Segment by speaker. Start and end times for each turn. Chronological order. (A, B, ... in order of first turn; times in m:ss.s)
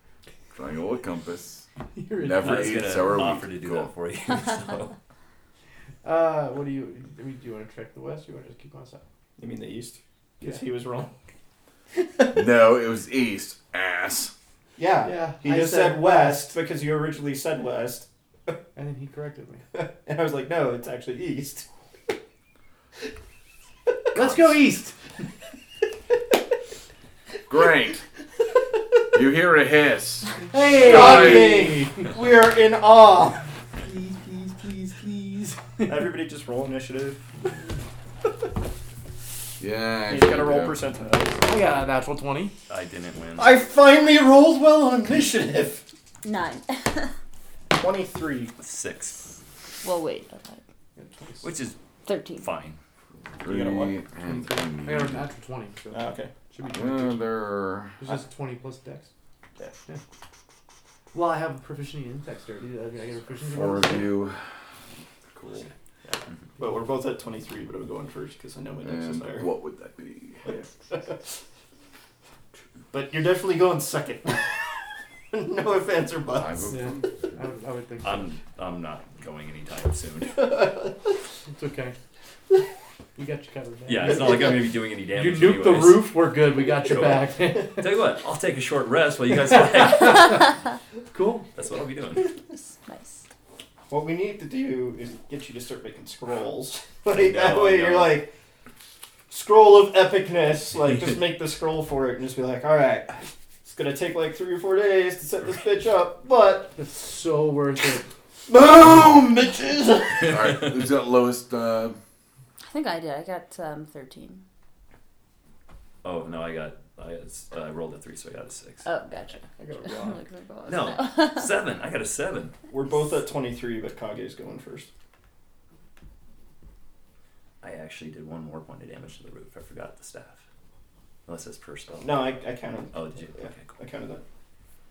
0:00.5-0:01.7 A
0:01.9-0:03.0 B
0:02.2-0:03.9 A
0:02.4-0:04.9 C
0:06.0-0:09.0 B
0:09.4-0:11.1 D
0:12.3-0:14.3 A
0:14.8-0:18.6 D
0:15.0-0:16.6 B
0:18.8-0:19.6 B
0:19.7-0:21.7 D
0:24.1-0:25.0 B
0:27.5-0:28.0 A
0:29.1-0:31.7 A
0:30.5-0:32.1 B
0:30.8-0:33.5 D
0:33.7-0:36.0 B
0:35.9-0:37.3 D
0:39.6-0:40.8 A
0:40.1-0:41.4 D
0:41.4-0:42.6 B
0:42.7-0:43.6 C
0:43.4-0:45.8 D
0:46.2-0:47.1 E
0:47.7-0:48.5 D
0:48.6-0:49.3 C
0:49.8-0:50.6 E
0:51.0-0:51.5 B
0:51.4-0:51.8 C
0:52.0-0:52.5 E
0:52.4-0:52.8 C
0:53.4-0:55.3 A
0:53.4-0:54.0 D
0:54.2-0:57.2 B
0:55.9-0:56.3 D
0:56.7-0:58.0 A
0:58.0-0:59.1 B
1:01.1-1:04.2 B
1:03.5-1:04.4 A
1:06.0-1:09.5 D
1:08.8-1:10.5 A
1:10.4-1:11.4 D
1:12.9-1:17.1 D
1:16.3-1:17.1 A
1:16.7-1:18.4 B
1:18.0-1:20.6 C
1:20.4-1:20.9 D
1:21.5-1:22.0 B
1:23.2-1:24.6 B
1:23.9-1:30.4 C
1:25.1-1:28.0 B
1:29.5-1:30.5 B
1:31.1-1:31.5 B
1:31.6-1:32.3 C
1:32.5-1:33.3 E
1:33.9-1:38.3 D
1:37.1-1:38.2 C
1:39.3-1:46.8 D
1:46.8-1:48.1 B
1:48.5-1:50.4 D
1:50.2-1:50.8 C
1:50.3-1:52.0 A
1:52.7-1:54.4 E
1:56.0-1:58.9 C
1:58.8-2:01.6 E
1:59.6-2:00.2 D
2:00.7-2:02.5 C
2:02.7-2:04.9 D
2:07.6-2:10.4 C
2:11.3-2:12.4 C
2:12.0-2:14.2 D
2:12.9-2:13.8 C